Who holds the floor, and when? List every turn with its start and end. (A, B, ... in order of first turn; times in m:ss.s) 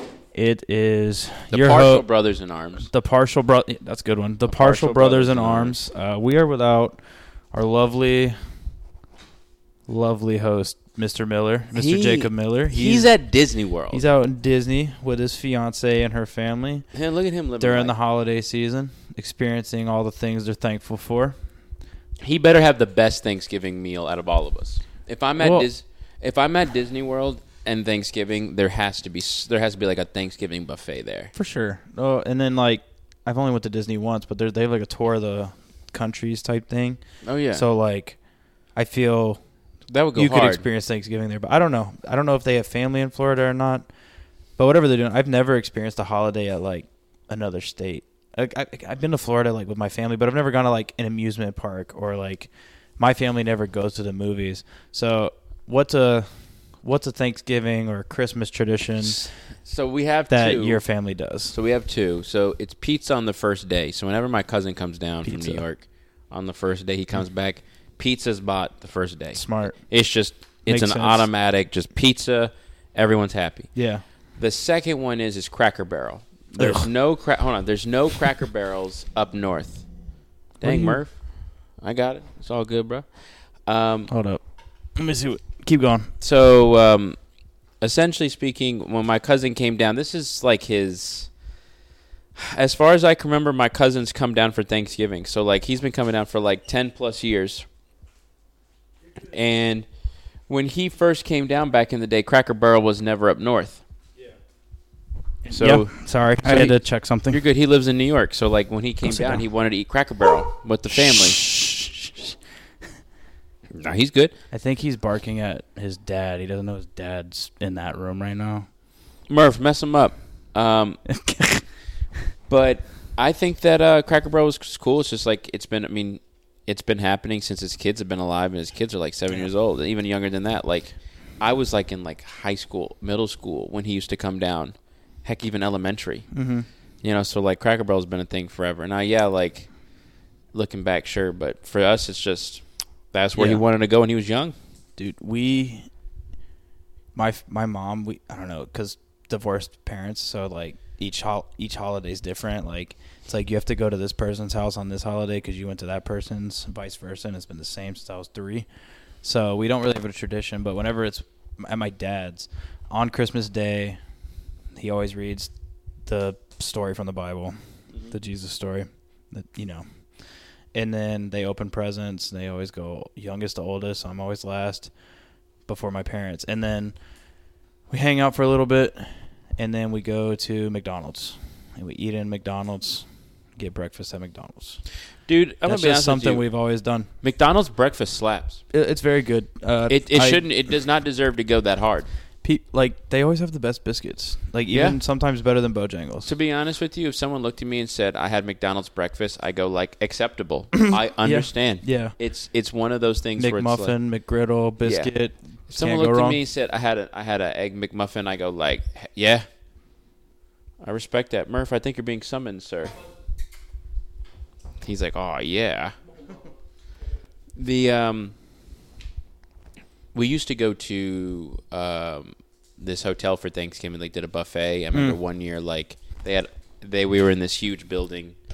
0:00.3-0:02.0 A
0:01.5-0:02.9 B
0:02.8-0:07.0 A
0:04.4-0:05.8 B
0:07.5-0:08.4 A
0:09.9-0:13.1 A
0:11.7-0:14.0 B
0:13.9-0:16.9 A
0:16.9-0:17.9 B
0:17.6-0:21.4 A
0:22.2-0:31.3 B
0:25.4-0:25.7 A
0:31.4-0:37.0 A
0:37.2-0:37.7 B
0:37.5-0:38.2 A
0:38.8-0:39.4 A
0:39.9-0:40.6 B
0:40.2-0:43.9 A
0:44.6-0:56.3 A
0:56.8-0:59.2 A
0:59.0-1:00.8 B
1:00.3-1:01.6 A
1:01.5-1:13.7 B
1:05.2-1:05.6 A
1:09.4-1:09.8 A
1:10.7-1:11.3 A
1:13.8-1:14.0 A
1:14.4-1:19.9 B
1:16.6-1:16.9 A
1:20.6-1:21.2 B
1:20.6-1:21.0 A
1:21.8-1:23.1 B
1:23.7-1:24.1 B
1:24.1-1:24.4 A
1:25.0-1:26.1 A
1:26.2-1:27.2 B
1:27.8-1:31.3 B
1:32.4-1:37.7 B
1:39.3-1:39.9 B
1:40.5-1:43.8 B
1:45.5-1:47.4 A
1:45.5-1:46.8 B
1:47.3-1:51.4 B
1:49.0-1:49.4 A
1:50.9-1:52.4 A
1:53.7-1:54.3 B
1:54.5-1:58.7 A
1:59.3-2:01.0 B
2:01.1-2:01.6 A
2:02.5-2:16.3 B
2:16.3-2:16.7 A
2:17.0-2:19.7 B
2:20.5-2:24.6 B
2:23.4-2:23.6 A
2:25.0-2:25.9 A
2:27.2-2:38.7 A
2:39.2-2:44.0 A
2:44.8-2:45.5 A
2:46.1-2:47.6 A
2:48.1-2:49.8 A
2:50.7-2:54.9 A
2:55.7-2:57.0 A
2:57.9-3:04.8 A
3:05.3-3:06.4 B
3:05.7-3:07.1 A
3:07.2-3:08.6 B
3:08.7-3:10.4 A
3:09.9-3:12.1 B
3:12.4-3:16.3 A
3:14.7-3:15.0 B
3:16.3-3:24.0 B
3:20.9-3:22.2 A
3:23.4-3:26.4 A
3:24.8-3:25.1 B
3:25.7-3:29.5 B
3:30.8-3:33.0 B
3:34.8-3:36.0 B
3:37.6-3:38.4 B
3:40.1-3:48.4 B
3:44.9-3:45.2 A